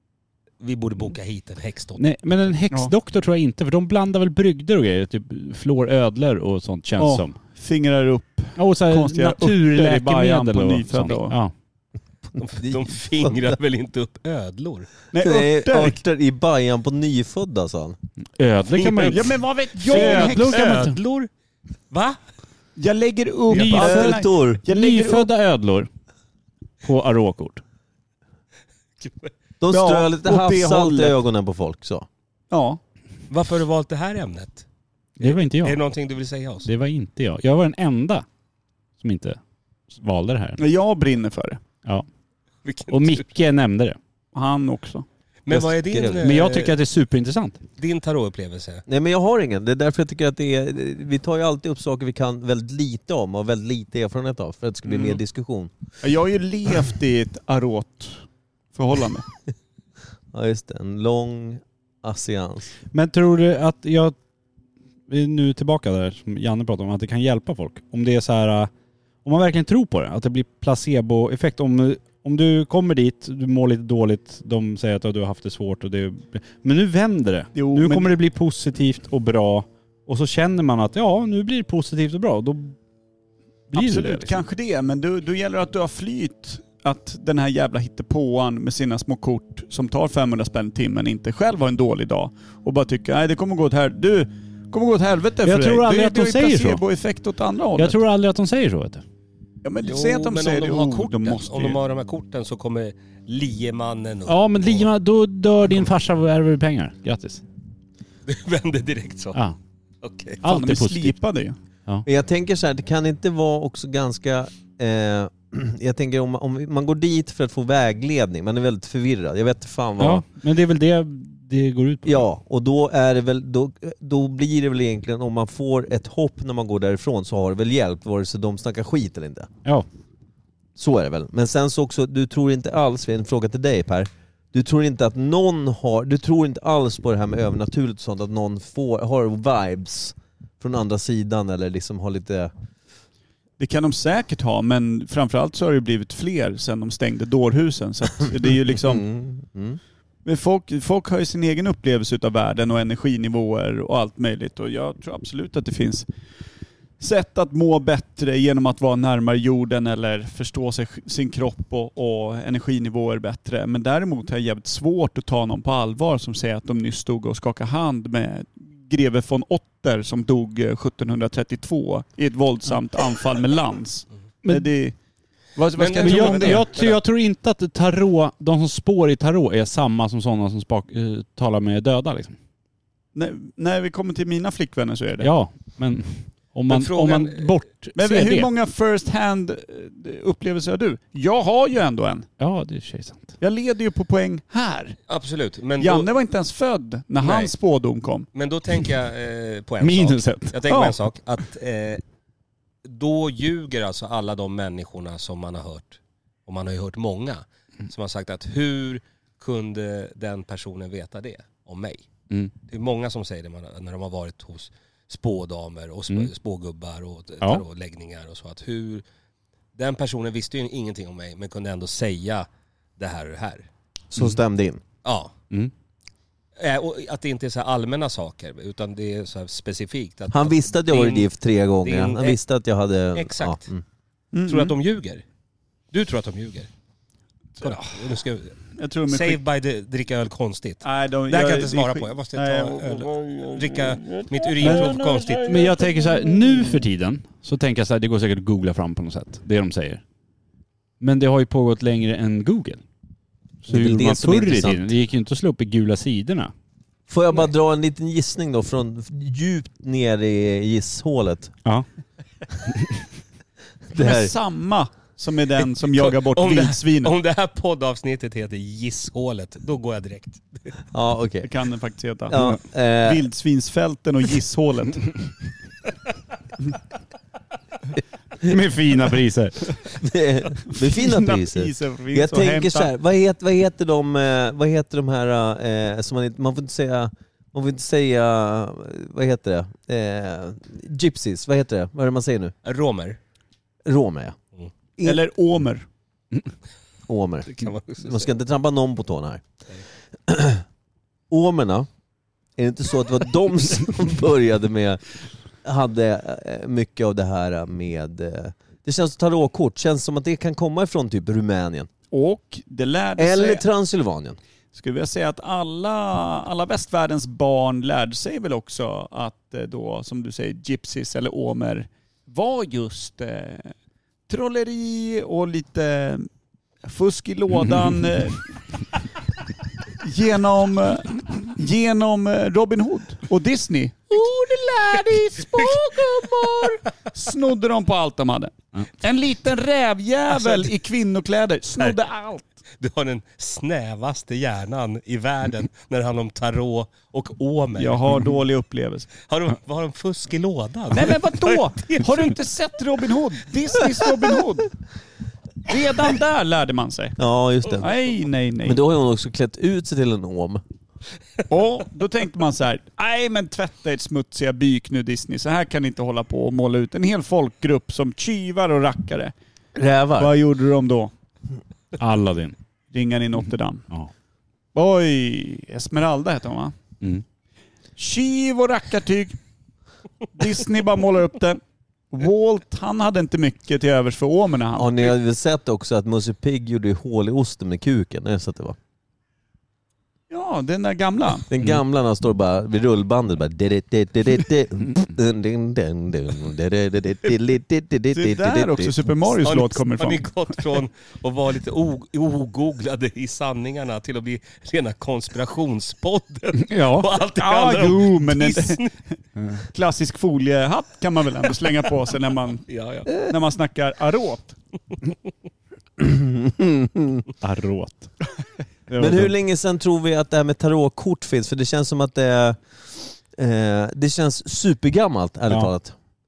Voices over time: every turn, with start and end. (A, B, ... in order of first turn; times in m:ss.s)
0:00.6-0:02.5 A
0:02.0-0:07.3 B
0:07.0-0:11.4 C
0:08.6-0:11.5 B
0:12.3-0:14.9 A
0:12.6-0:13.4 D
0:15.1-0:16.0 C
0:15.2-0:18.0 D
0:18.4-0:19.3 B
0:18.7-0:21.3 A
0:19.1-0:20.8 C
0:19.8-0:21.0 B
0:21.9-0:22.2 A
0:22.8-0:25.3 C
0:23.5-0:25.9 B
0:23.8-0:24.6 D
0:26.8-0:27.6 B
0:29.0-0:29.3 A
0:29.6-0:32.1 D
0:29.7-0:31.2 C
0:32.5-0:32.8 C
0:33.3-0:34.6 A
0:35.2-0:35.8 B
0:35.2-0:36.7 A
0:36.6-0:38.2 B
0:39.0-0:39.4 B
0:39.9-0:40.6 B
0:40.6-0:41.6 C
0:42.6-0:43.2 A
0:42.9-0:44.0 B
0:44.3-0:45.0 C
0:45.4-0:46.8 A
0:45.6-0:46.2 D
0:46.2-0:47.6 B
0:47.8-0:48.8 A
0:48.9-0:55.7 D
0:56.0-0:59.2 C
1:00.3-1:02.7 D
1:02.9-1:04.1 B
1:05.1-1:08.7 B
1:09.2-1:22.8 B
1:17.5-1:18.1 C
1:23.7-1:24.4 B
1:23.7-1:38.0 C
1:35.4-1:36.8 B
1:37.8-1:39.0 B
1:39.6-1:41.8 C
1:39.8-1:44.9 A
1:44.3-1:47.4 B
1:48.2-1:49.4 A
1:50.0-1:50.4 A
1:50.4-1:51.2 B
1:50.4-1:51.6 C
1:52.0-2:00.2 D
2:00.0-2:02.2 B
2:02.0-2:09.5 D
2:10.8-2:22.5 D
2:23.6-2:29.0 C
2:28.7-2:29.8 D
2:30.2-2:36.0 C
2:37.0-2:55.0 C
2:54.4-2:54.7 B
2:55.6-2:56.7 C
2:55.8-2:57.0 A
2:56.0-3:02.4 B
3:03.1-3:05.3 C
3:05.2-3:08.5 B
3:06.7-3:07.5 A
3:07.9-3:12.3 C
3:12.4-3:13.4 B
3:13.4-3:15.0 C
3:15.1-3:16.1 A
3:15.8-3:18.3 C
3:17.2-3:17.5 A
3:18.3-3:22.0 A
3:19.8-3:20.6 B
3:20.7-3:20.9 C
3:22.8-3:32.0 A
3:32.7-3:39.0 A
3:39.8-3:42.5 A
3:43.0-3:43.6 A
3:44.1-3:44.8 D
3:45.0-3:45.3 A
3:46.6-3:51.3 A
3:50.3-3:53.8 D
3:51.8-3:52.4 A
3:53.1-3:53.6 A
3:54.3-3:54.7 C
3:54.5-3:55.2 A
3:55.9-3:56.7 A
3:57.6-3:58.0 C
3:57.6-4:05.6 A
3:58.8-3:59.4 C
4:00.8-4:02.9 C
4:04.6-4:10.0 B
4:11.0-4:12.8 B
4:13.6-4:16.5 B
4:13.7-4:14.9 D
4:17.1-4:21.5 D
4:23.9-4:24.3 D
4:24.0-4:27.1 C
4:25.6-4:30.7 A
4:30.9-4:31.5 D
4:31.4-4:32.4 C
4:32.3-4:33.3 D
4:33.0-4:35.2 C
4:38.4-4:39.6 B
4:39.8-4:52.5 D
4:40.8-4:42.9 C
4:52.6-4:53.2 A
4:53.8-4:54.4 D
4:55.0-4:55.9 C
4:57.1-4:59.4 D
4:57.5-4:58.3 A
5:00.3-5:00.6 D
5:01.3-5:01.9 D
5:02.6-5:05.0 D
5:05.6-5:11.9 D
5:12.1-5:13.6 C
5:13.2-5:14.4 D
5:14.7-5:23.7 C
5:24.3-5:26.3 C
5:26.8-5:28.8 C
5:30.0-5:42.5 C
5:35.6-5:35.8 A
5:40.3-5:40.7 A
5:42.8-5:48.2 A
5:47.8-5:49.1 C
5:49.2-5:52.3 A
5:50.9-5:54.7 C
5:55.6-5:57.2 C
5:57.2-5:57.9 D
5:57.8-5:58.8 C
5:58.6-6:00.6 D
6:01.5-6:09.3 C
6:09.7-6:10.4 D
6:10.2-6:11.1 C
6:12.0-6:12.5 B
6:12.9-6:13.8 C
6:14.7-6:16.7 C
6:18.0-6:19.4 C
6:20.3-6:21.6 C
6:22.1-6:25.1 C
6:24.7-6:28.8 D
6:30.3-6:31.5 C
6:31.5-6:39.0 D
6:38.1-6:40.6 C
6:39.4-6:48.9 A
6:46.6-6:47.1 B
6:47.3-6:48.8 C
6:49.7-6:52.6 C
6:52.7-6:53.2 A
6:53.2-6:54.5 C
6:56.0-6:57.2 D
6:57.4-6:58.1 B
6:58.9-6:59.3 B
6:59.0-7:05.9 D